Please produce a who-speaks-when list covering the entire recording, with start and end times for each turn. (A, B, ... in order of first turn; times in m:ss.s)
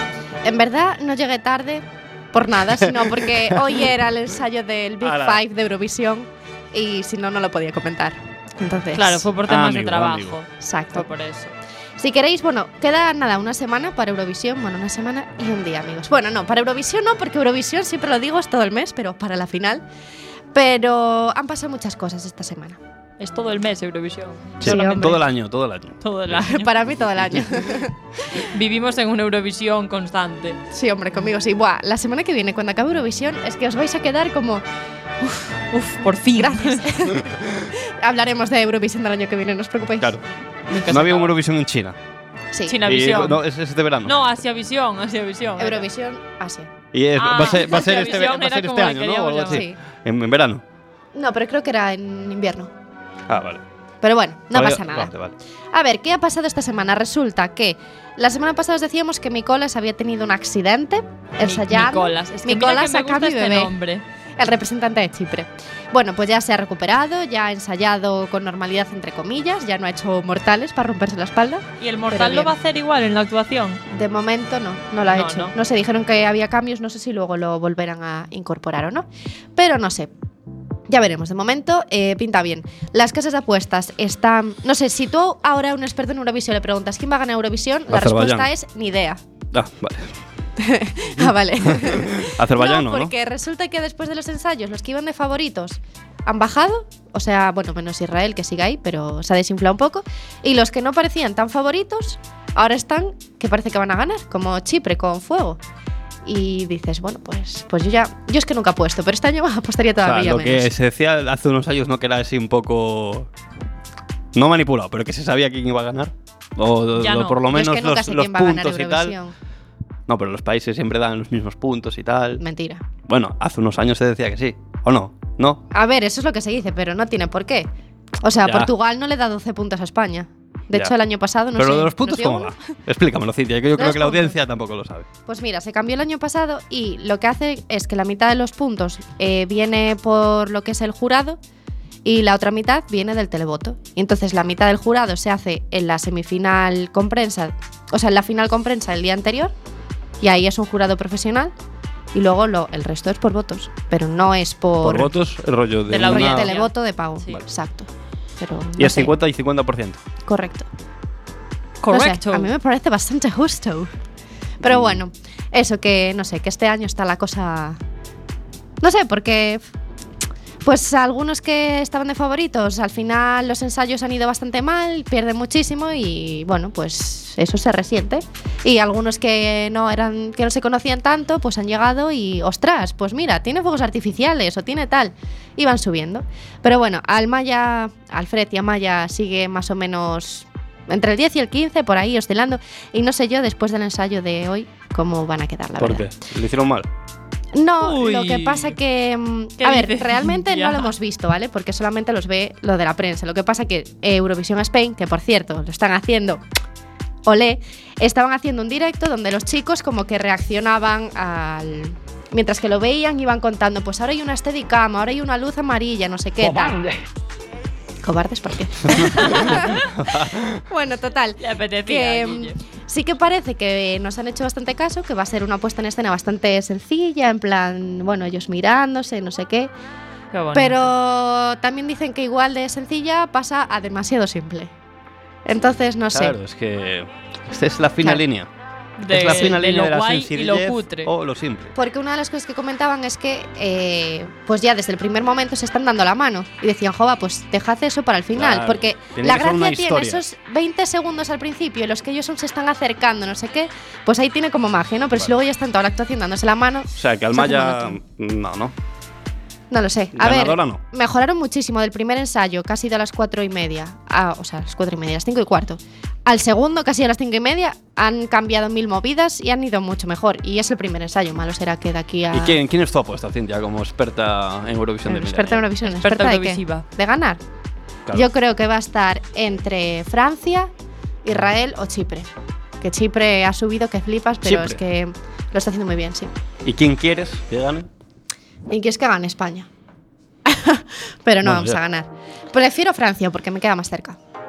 0:00.4-0:09.3 A
0:03.0-0:03.7 B
0:05.0-0:05.4 B
0:08.9-0:11.5 C
0:09.4-0:10.4 B
0:10.6-0:11.1 A
0:12.0-0:19.8 A
0:20.5-0:22.8 A
0:23.2-0:25.2 C
0:24.6-0:26.4 B
0:24.6-0:25.2 A
0:26.0-0:26.7 C
0:26.3-0:27.9 A
0:27.2-0:27.5 B
0:28.4-0:30.6 C
0:30.7-0:34.6 A
0:35.2-0:35.6 A
0:35.7-0:36.8 C
0:36.3-0:40.1 A
0:40.7-0:41.3 C
0:40.9-0:42.0 B
0:42.5-0:42.8 A
0:42.7-0:43.4 C
0:42.8-0:44.2 B
0:44.0-0:45.9 C
0:45.6-0:46.7 A
0:46.9-0:50.6 B
0:47.2-0:49.6 C
0:49.5-0:49.8 A
0:51.1-0:52.7 A
0:53.3-0:53.6 B
0:54.0-0:55.1 A
0:54.5-0:55.3 B
0:55.7-1:03.7 A
1:01.4-1:04.0 C
1:04.4-1:12.5 A
1:11.8-1:13.8 C
1:13.9-1:20.1 A
1:15.1-1:15.5 C
1:20.9-1:29.2 A
1:27.9-1:28.5 B
1:29.5-1:30.2 B
1:30.6-1:45.6 A
1:31.2-1:33.1 B
1:46.2-1:50.7 A
1:50.0-1:53.3 B
1:54.3-1:59.2 B
1:57.0-1:57.4 C
1:57.5-1:59.3 A
2:00.1-2:02.4 B
2:02.4-2:02.8 A
2:03.1-2:05.6 B
2:05.7-2:07.7 A
2:08.2-2:12.6 A
2:08.4-2:08.7 B
2:11.6-2:15.1 B
2:13.8-2:14.4 A
2:15.3-2:21.4 A
2:22.0-2:29.5 A
2:30.2-2:31.5 A
2:32.1-2:35.1 A
2:34.8-2:36.6 B
2:35.9-2:37.4 C
2:36.0-2:39.1 A
2:38.8-2:40.0 B
2:40.3-2:40.7 A
2:41.8-2:42.5 C
2:41.9-2:43.9 A
2:44.6-2:47.8 A
2:44.6-2:45.0 B
2:48.8-2:49.6 A
2:50.6-3:16.1 A
3:15.8-3:16.9 B
3:17.5-3:26.4 A
3:17.8-3:18.8 C
3:19.6-3:20.9 C
3:27.2-3:36.8 A
3:36.4-3:36.8 B
3:38.0-3:39.8 A
3:39.0-3:39.7 C
3:39.0-3:40.6 B
3:40.7-3:49.7 A
3:41.4-3:42.6 C
3:50.3-3:50.9 C
3:50.5-3:54.7 A
3:55.4-3:56.3 A
3:56.1-3:58.5 B
3:59.0-4:01.1 C
3:59.1-4:01.7 B
4:01.7-4:18.0 A
4:08.3-4:10.2 B
4:17.0-4:18.7 B
4:19.7-4:32.6 A
4:20.1-4:20.8 B
4:32.3-4:35.7 B
4:35.1-4:37.4 A
4:35.8-4:36.8 C
4:38.1-4:40.7 A
4:41.2-4:42.3 A
4:42.8-4:46.3 A
4:44.4-4:44.8 B
4:46.6-4:47.9 B
4:48.7-4:49.7 A
4:50.4-4:54.2 A
4:51.4-4:51.8 B